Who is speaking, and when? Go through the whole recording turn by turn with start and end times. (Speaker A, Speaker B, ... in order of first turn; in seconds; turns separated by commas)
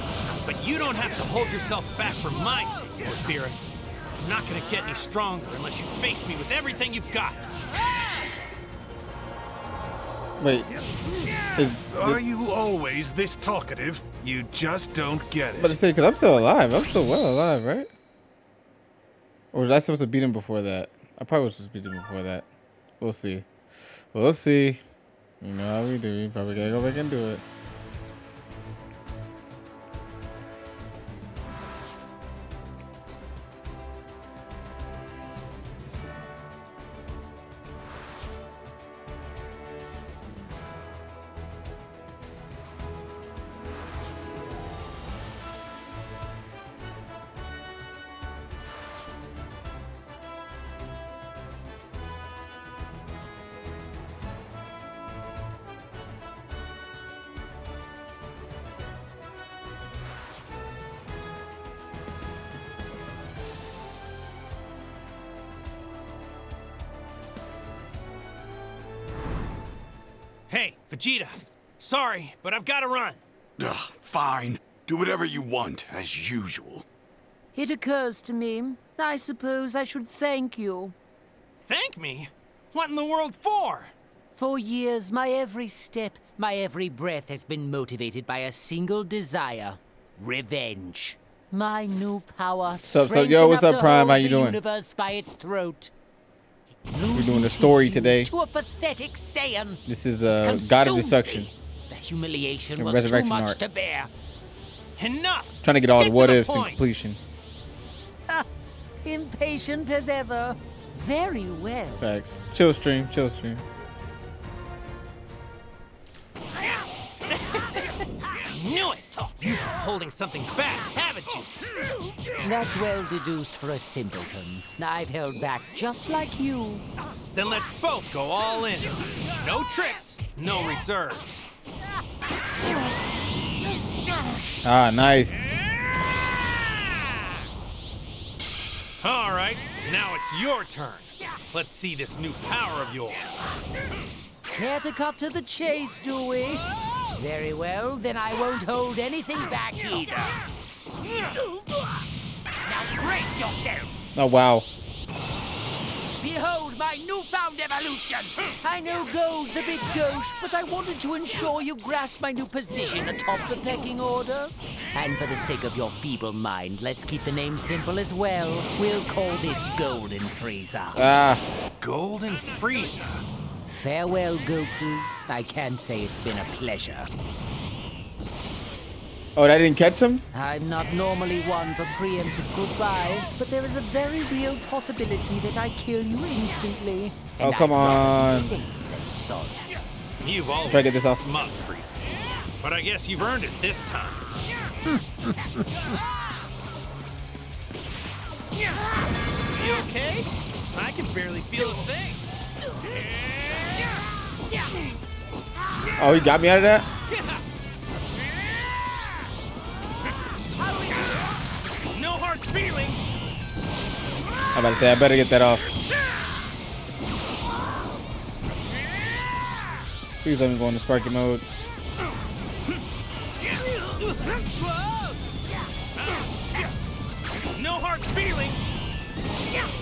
Speaker A: 0.4-7.5, Speaker B: 10.4-10.7, Speaker B: 11.6-12.2, Speaker C: 12.0-15.8, Speaker B: 15.6-17.9, Speaker B: 19.5-22.4, Speaker B: 23.0-23.5, Speaker B: 24.1-24.8, Speaker B: 25.4-27.4, Speaker A: 70.5-73.2, Speaker D: 74.0-76.6, Speaker E: 77.5-80.9, Speaker A: 81.7-83.9, Speaker E: 84.3-95.9, Speaker B: 92.8-94.6, Speaker E: 96.9-104.1, Speaker B: 97.1-98.3, Speaker B: 99.8-101.5, Speaker B: 102.8-103.6, Speaker A: 105.0-106.9, Speaker B: 105.6-107.2, Speaker E: 109.0-112.0, Speaker B: 112.0-113.6, Speaker A: 118.5-121.5, Speaker E: 122.4-126.8, Speaker A: 127.3-131.4, Speaker B: 134.6-135.6, Speaker A: 139.0-143.4, Speaker E: 144.5-146.6, Speaker E: 147.1-150.3, Speaker E: 152.6-153.9, Speaker B: 154.1-154.7, Speaker E: 156.2-171.0, Speaker B: 170.9-171.4, Speaker A: 171.8-173.2, Speaker E: 173.7-177.1, Speaker B: 179.3-180.2, Speaker E: 180.3-189.6, Speaker B: 187.4-188.5, Speaker A: 190.2-192.0, Speaker B: 190.7-191.2, Speaker A: 192.6-194.2, Speaker E: 194.9-195.3, Speaker A: 199.5-202.2, Speaker B: 206.0-206.8, Speaker A: 207.1-207.4, Speaker E: 210.6-211.1, Speaker A: 211.9-213.1, Speaker B: 214.5-215.7, Speaker B: 220.2-221.4, Speaker A: 227.5-228.7